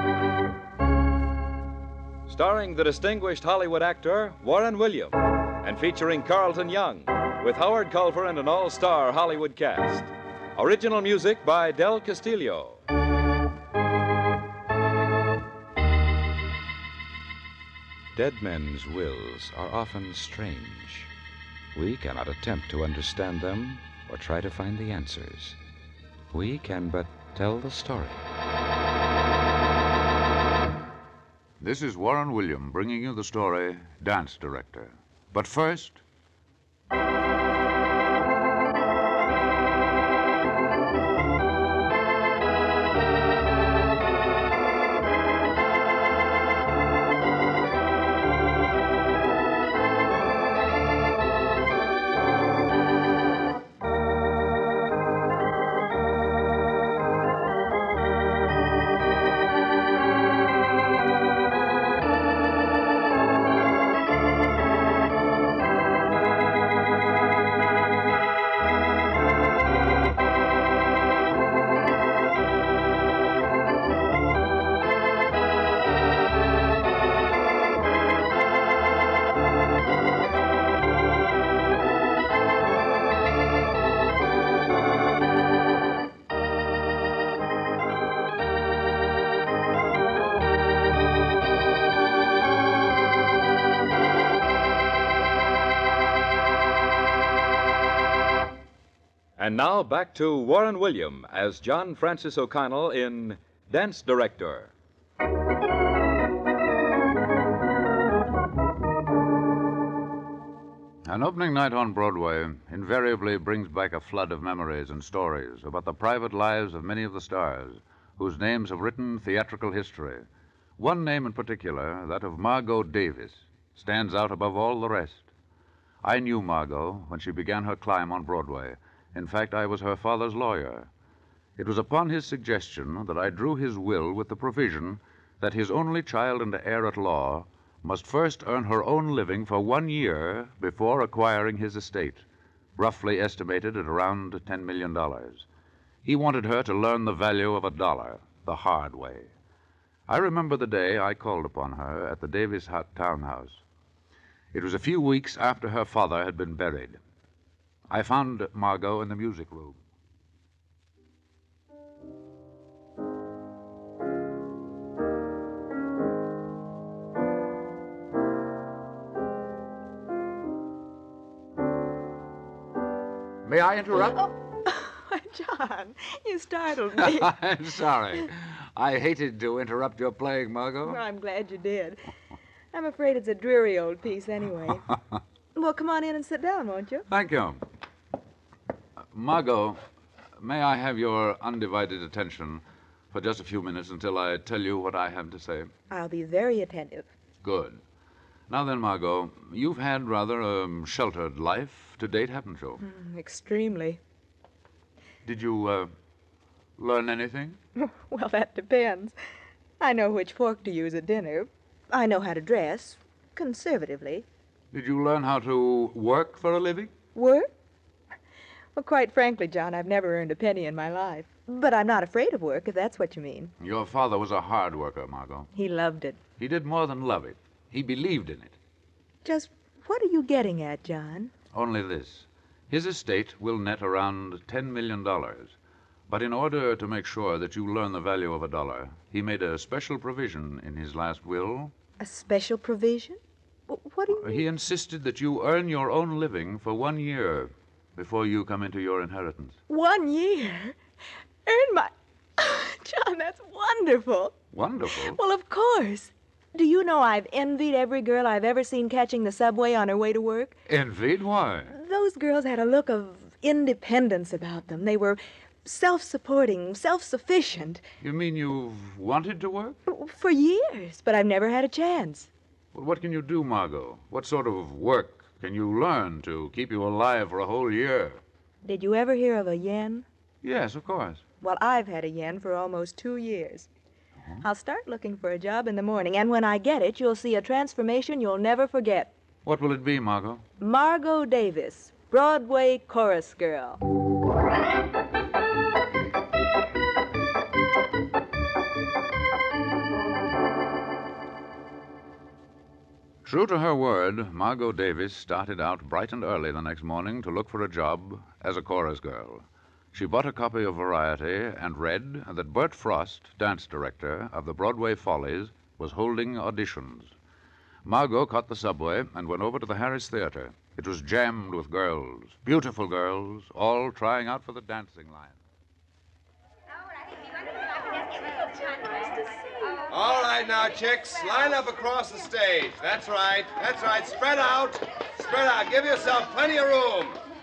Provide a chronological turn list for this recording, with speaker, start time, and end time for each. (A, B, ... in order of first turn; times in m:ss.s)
0:02.3-0:12.8 A
0:18.1-0:21.1 A
0:21.7-0:25.6 A
0:26.3-0:28.3 A
0:31.6-0:36.0 B
1:39.4-1:44.7 A
1:51.0-2:00.2 B
2:00.8-2:05.3 B
2:06.0-2:10.9 B
2:11.6-2:22.2 B
2:22.8-2:25.4 B
2:26.0-2:29.3 B
2:30.1-2:33.6 B
2:34.5-2:37.0 B
2:37.9-2:39.8 B
2:53.4-2:54.2 B
2:54.6-2:57.4 C
2:57.0-3:01.0 B
3:00.8-3:02.0 C
3:02.7-3:04.9 C
3:05.5-3:07.1 C
3:07.1-3:07.6 B
3:09.1-3:09.8 B
3:10.4-3:15.7 B
3:15.9-3:17.1 C
3:17.4-3:17.8 B
3:18.5-3:22.8 B
3:22.8-3:24.0 C
3:25.2-3:25.9 B
3:26.8-3:27.6 B
3:27.8-3:29.1 C
3:29.8-3:34.2 C
3:34.7-3:36.9 B
3:37.1-3:37.5 C
3:38.7-3:43.5 C
3:43.6-3:45.5 B
3:45.5-3:46.2 C
3:46.4-3:48.6 B
3:49.2-3:51.3 C
3:51.5-3:55.5 B
3:56.1-4:01.7 B
4:02.0-4:04.4 C
4:04.1-4:09.6 B
4:09.7-4:10.8 C
4:11.4-4:14.3 C
4:14.5-4:15.2 B
4:14.9-4:20.5 C
4:20.7-4:21.7 B
4:21.7-4:27.8 C
4:28.0-4:29.8 B
4:29.9-4:32.3 C
4:32.7-4:38.2 B
4:38.6-4:40.0 C
4:40.4-4:41.2 B
4:41.4-4:43.7 C
4:44.4-4:49.1 C
4:49.4-4:50.4 B
4:50.6-4:53.8 C
5:03.2-5:17.1 B
5:17.8-5:25.4 B
5:28.0-5:29.9 C
5:29.9-5:37.2 D